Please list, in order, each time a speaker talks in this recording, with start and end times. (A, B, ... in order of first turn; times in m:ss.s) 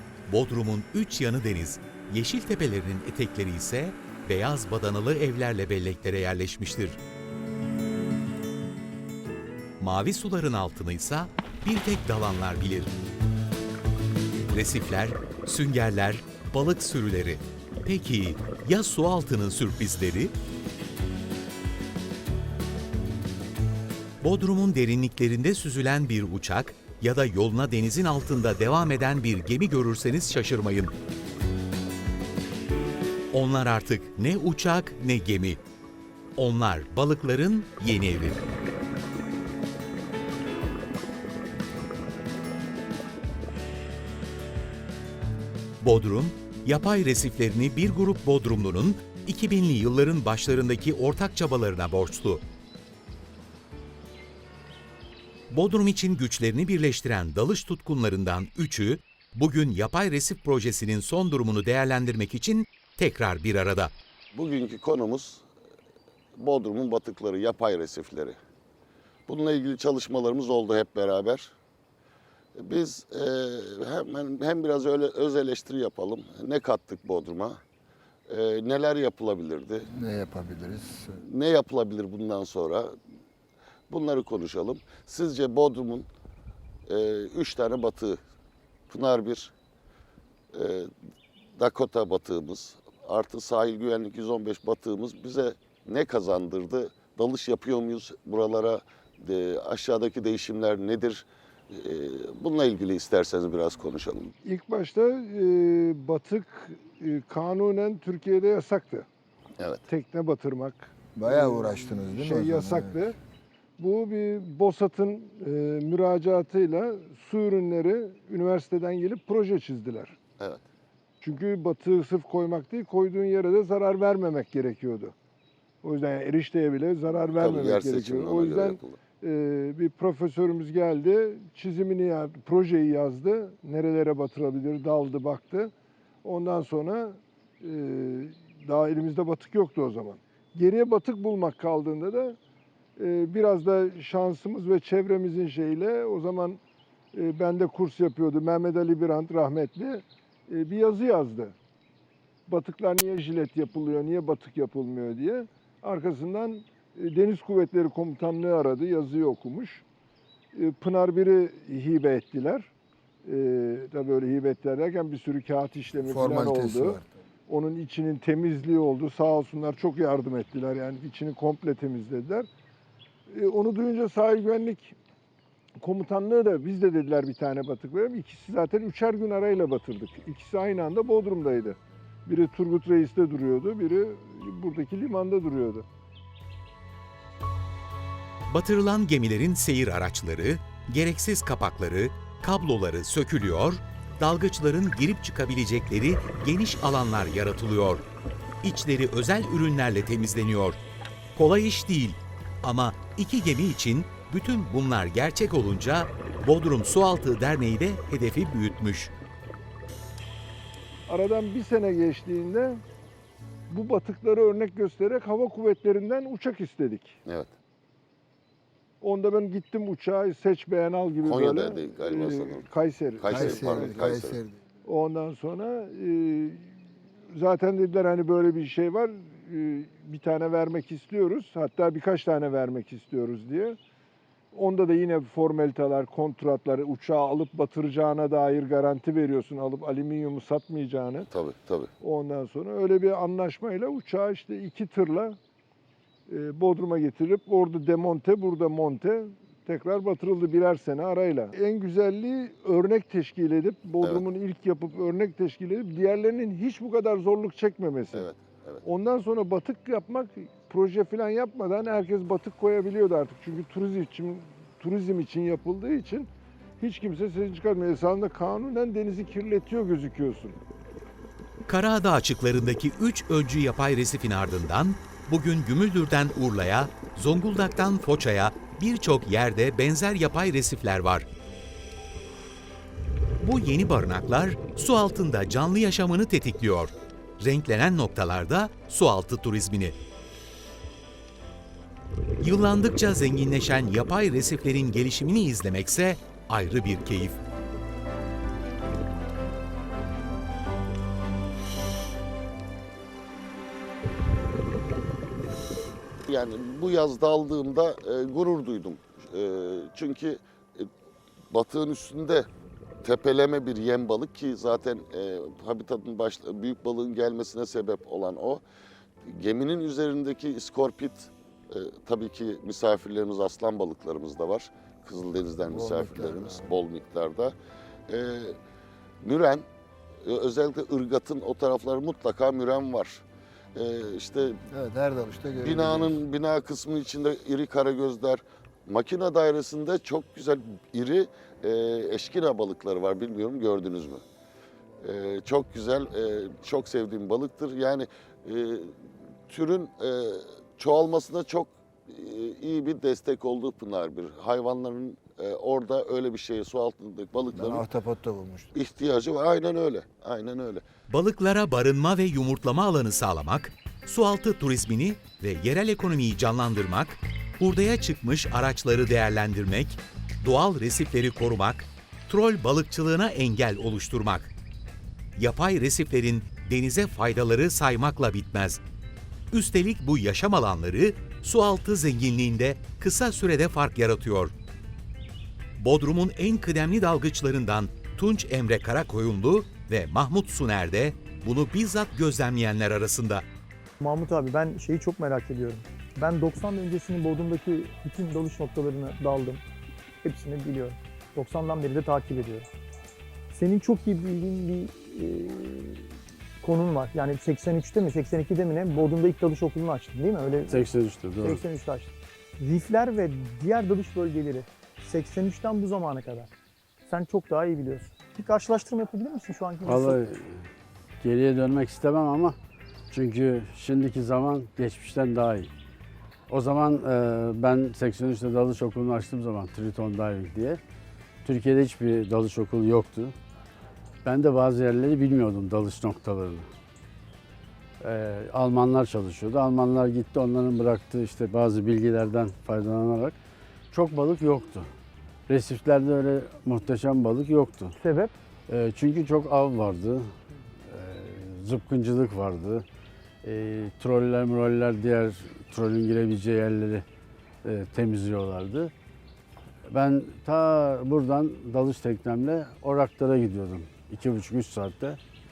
0:00.3-0:07.0 A
0:09.8-0:12.9 A
0:14.5-0:20.3 A
0:24.2-0:30.9 A
0:33.3-0:35.6 A
0:36.4-0:38.4 A
0:45.8-0:52.4 A
0:55.5-1:03.9 A
1:04.3-1:05.4 B
1:06.4-1:08.4 B
1:09.3-1:11.5 B
1:12.6-1:17.6 B
1:18.3-1:19.9 B
1:19.9-1:21.2 C
1:21.2-1:22.9 B
1:23.9-1:26.1 B
1:26.9-1:28.2 B
1:28.9-1:29.5 B
1:30.5-1:30.9 B
1:31.6-1:44.3 B
1:44.4-1:49.1 D
1:49.9-1:53.2 D
1:51.2-1:53.1 C
1:53.8-2:00.2 D
2:00.4-2:00.6 B
2:01.2-2:05.2 D
2:05.8-2:15.7 D
2:07.4-2:09.0 B
2:16.2-2:22.4 D
2:23.0-2:26.6 D
2:27.1-2:31.6 D
2:32.5-2:39.8 D
2:40.5-2:42.7 D
2:43.2-2:52.5 D
2:46.0-2:47.1 C
2:53.3-2:55.0 D
2:55.8-3:05.9 D
3:08.5-3:18.0 A
3:18.6-3:20.8 A
3:21.4-3:29.1 A
3:31.1-3:32.8 D
3:33.7-3:37.2 D
3:37.3-3:37.5 B
3:39.0-3:44.0 D
3:41.2-3:44.4 B
3:43.3-3:44.6 C
3:44.8-3:46.8 D
3:47.3-3:53.8 D
3:54.5-4:01.3 D
4:01.3-4:01.9 B
4:02.0-4:05.4 D
4:06.3-4:18.3 D
4:18.1-4:18.8 B
4:18.8-4:30.6 D
4:31.7-4:41.3 A
4:43.4-4:50.0 A
4:52.4-4:57.4 A
5:06.3-5:10.9 B
5:11.5-5:12.5 B
5:13.0-5:18.6 B
5:19.3-5:27.6 B
5:25.6-5:26.7 C
5:28.1-5:28.6 B
5:29.2-5:29.7 B
5:30.2-5:33.2 B
5:33.8-5:34.6 B
5:34.7-5:36.2 C
5:35.6-5:44.2 B
5:45.0-5:49.0 B
5:49.5-5:57.8 B
5:57.5-5:58.8 C
5:58.7-6:00.8 B
6:01.1-6:14.5 A
6:15.4-6:18.8 A
6:19.5-6:24.5 A
6:25.8-6:33.4 A
6:34.0-6:39.6 E
6:40.2-6:42.7 E
6:43.5-6:46.1 E
6:46.6-6:56.5 E
6:50.7-6:51.6 F
6:57.1-7:00.2 E
6:59.8-7:00.6 F
7:01.2-7:02.6 F
7:03.1-7:05.7 F
7:06.5-7:10.8 F
7:11.4-7:13.4 F
7:14.2-7:16.7 F
7:18.0-7:23.4 F
7:23.9-7:24.9 F
7:25.5-7:28.0 F
7:28.0-7:28.4 E
7:28.7-7:30.3 F
7:30.9-7:32.8 F
7:33.4-7:37.0 F
7:37.6-7:38.9 F
7:39.9-7:45.2 F